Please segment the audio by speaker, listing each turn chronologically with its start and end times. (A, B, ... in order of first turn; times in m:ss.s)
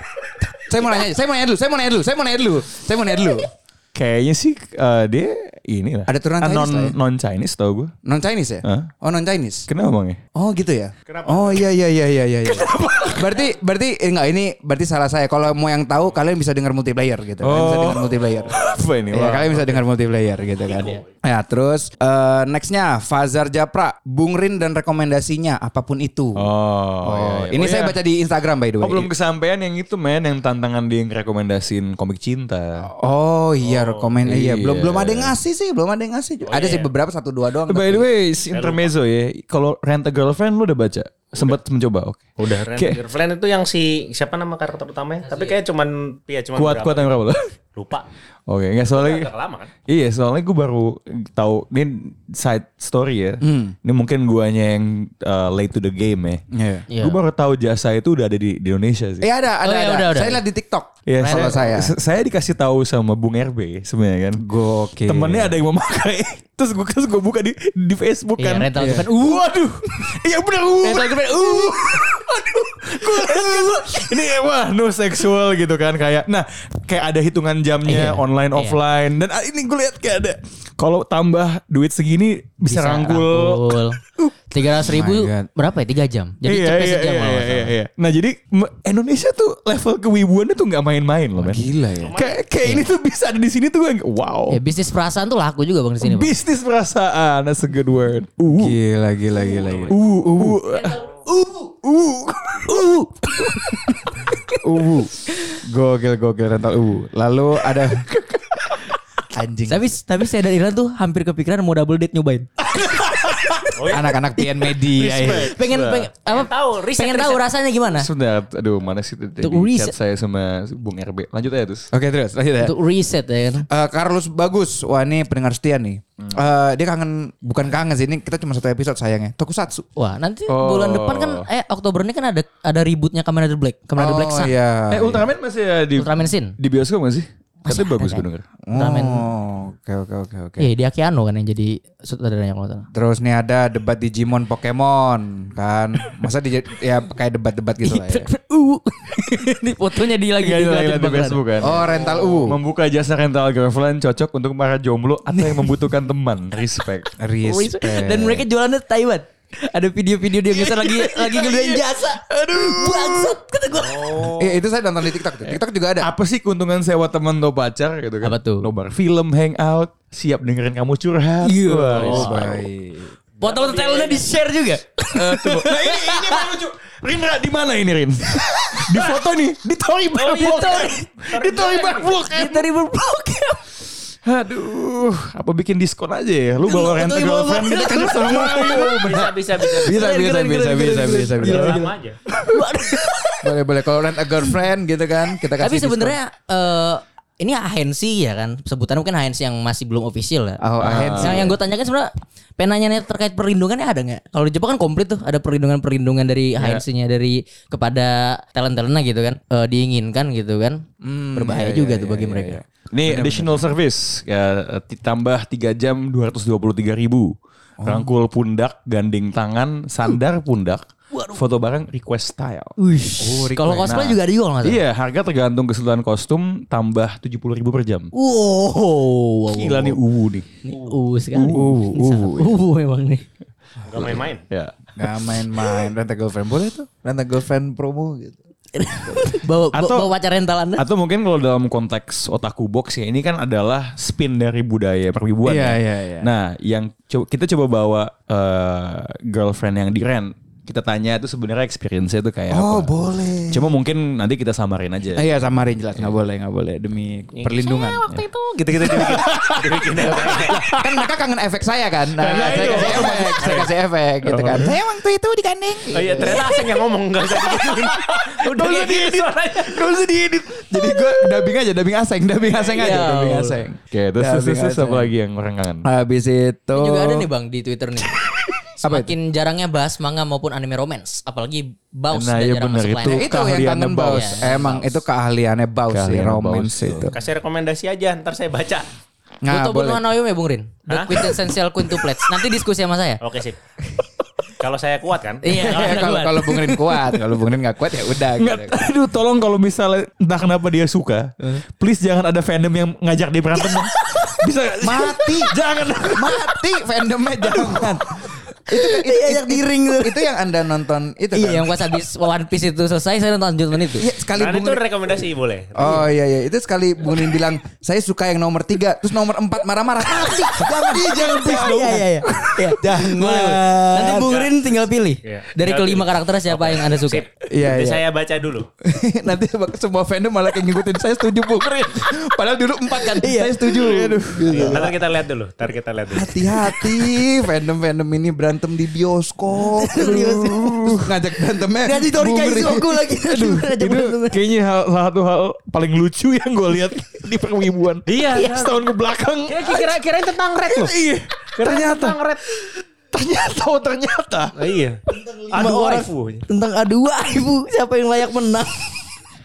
0:00.5-0:03.5 A
0:03.9-0:07.9 B
0:06.1-0:06.9 A
0:08.0-0:09.7 A
0:08.6-0:08.9 B
0:09.7-0:10.2 B
0:10.3-0:26.5 A
0:11.1-0:11.6 C
0:12.4-0:13.5 B
0:17.4-0:19.8 B
0:18.3-0:18.6 C
0:20.6-0:21.0 C
0:26.4-0:28.0 B
0:27.0-0:29.1 A
0:28.8-0:32.9 B
0:32.8-0:38.1 A
0:33.6-0:34.2 C
0:34.2-0:35.4 B
0:36.4-0:36.9 C
0:37.7-0:43.0 B
0:38.5-0:38.9 C
0:42.4-0:47.2 C
0:45.3-0:45.5 D
0:46.5-0:47.4 B
0:47.8-0:48.0 C
0:48.5-0:49.3 B
0:48.9-0:49.7 C
0:49.9-0:56.4 B
0:53.4-0:53.7 A
0:56.5-0:56.8 A
0:56.9-0:57.2 D
0:57.0-0:59.3 B
0:59.2-1:01.9 A
0:59.6-1:00.4 D
1:01.1-1:04.4 B
1:01.2-1:01.6 D
1:04.4-1:05.5 A
1:05.0-1:24.3 B
1:08.4-1:09.4 D
1:08.8-1:09.1 A
1:10.8-1:12.0 D
1:13.1-1:13.7 D
1:17.8-1:18.8 D
1:22.6-1:24.0 D
1:24.5-1:27.7 D
1:24.8-1:25.5 A
1:26.4-1:34.6 B
1:31.4-1:32.2 A
1:31.9-1:32.4 C
1:32.6-1:32.9 D
1:34.5-1:36.3 D
1:36.0-1:38.8 B
1:38.5-1:40.6 A
1:39.6-1:39.9 C
1:39.9-1:44.0 B
1:44.6-1:48.1 A
1:49.3-1:49.8 A
1:49.7-1:53.7 D
1:52.6-1:53.7 B
1:53.8-1:54.1 C
1:53.9-1:55.5 A
1:54.4-1:58.1 D
1:54.9-1:56.1 B
1:56.2-1:57.4 C
1:57.9-2:01.9 B
1:59.4-1:59.9 D
2:01.9-2:02.8 A
2:02.6-2:03.7 D
2:03.7-2:09.8 A
2:10.0-2:14.5 D
2:10.5-2:11.5 B
2:14.0-2:15.3 A
2:14.9-2:18.4 B
2:16.0-2:16.6 D
2:17.6-2:19.2 D
2:18.7-2:20.7 A
2:20.6-2:22.9 D
2:22.9-2:28.3 A
2:27.8-2:31.4 D
2:30.2-2:37.1 B
2:31.6-2:32.6 A
2:37.2-2:38.4 A
2:37.4-2:44.3 D
2:40.4-2:43.4 B
2:43.7-2:44.6 C
2:44.4-2:46.1 A
2:45.4-2:52.6 B
2:48.2-2:48.7 D
2:51.4-2:52.6 D
2:51.9-2:53.1 A
2:53.4-2:56.5 D
2:53.4-2:54.2 C
2:55.1-3:02.7 B
3:00.2-3:02.1 C
3:00.2-3:01.1 D
3:02.3-3:03.6 D
3:04.2-3:09.3 B
3:06.6-3:11.9 D
3:08.9-3:10.1 C
3:09.7-3:11.8 A
3:11.4-3:12.2 C
3:12.3-3:13.0 B
3:12.5-3:13.5 D
3:13.4-3:16.2 A
3:15.6-3:30.8 D
3:20.6-3:21.6 A
3:20.8-3:21.5 B
3:26.6-3:26.8 B
3:31.0-3:33.7 A
3:31.3-3:32.6 D
3:32.9-3:42.7 B
3:37.8-3:38.1 A
3:41.1-3:41.4 D
3:42.8-3:44.8 D
3:43.2-3:44.0 A
3:43.8-3:48.1 B
3:48.1-3:50.0 D
3:49.6-3:50.5 B
3:50.6-3:53.2 D
3:51.3-3:52.4 B
3:51.5-3:52.5 A
3:53.8-3:54.4 C
3:54.0-3:54.7 B
3:55.0-3:58.4 A
3:58.7-4:00.8 D
3:59.7-4:00.1 B
4:00.8-4:15.3 B
4:05.4-4:06.3 A
4:12.5-4:13.7 A
4:15.1-4:18.0 A
4:17.3-4:20.6 C
4:18.9-4:21.0 B
4:20.1-4:26.6 A
4:22.2-4:23.7 C
4:22.2-4:23.4 B
4:24.2-4:24.8 B
4:25.9-4:29.8 C
4:27.9-4:31.0 B
4:29.7-4:35.1 A
4:32.7-4:33.6 D
4:33.9-4:35.8 B
4:35.8-4:37.3 A
4:36.7-4:38.1 D
4:38.8-4:43.3 D
4:38.8-4:39.1 A
4:42.1-4:44.4 B
4:43.0-4:47.1 A
4:44.1-4:45.0 D
4:45.9-4:47.1 B
4:47.1-4:48.8 C
4:49.4-4:50.0 A
4:49.5-4:53.2 D
4:50.9-4:51.2 C
4:53.2-4:53.6 C
4:54.6-4:56.0 C
4:55.4-4:57.1 D
4:55.5-4:58.8 A
4:58.4-5:06.5 B
5:03.7-5:04.4 D
5:04.8-5:11.7 A
5:07.4-5:07.9 B
5:08.7-5:10.3 D
5:11.3-5:14.1 D
5:13.9-5:14.8 A
5:14.3-5:16.1 C
5:15.7-5:24.3 A
5:20.2-5:27.2 D
5:20.9-5:22.5 B
5:24.1-5:28.7 C
5:27.5-5:28.0 A
5:28.8-5:35.0 A
5:32.9-5:34.0 D
5:33.7-5:34.9 B
5:34.5-5:36.4 C
5:36.1-5:44.0 A
5:39.5-5:40.7 D
5:39.9-5:41.1 B
5:41.8-5:44.4 D
5:43.4-5:49.9 B
5:48.1-5:48.8 C
5:49.5-5:50.9 C
5:50.6-5:54.5 B
5:51.6-5:52.4 C
5:54.6-5:55.0 C
5:55.5-5:56.4 C
5:55.5-5:59.0 D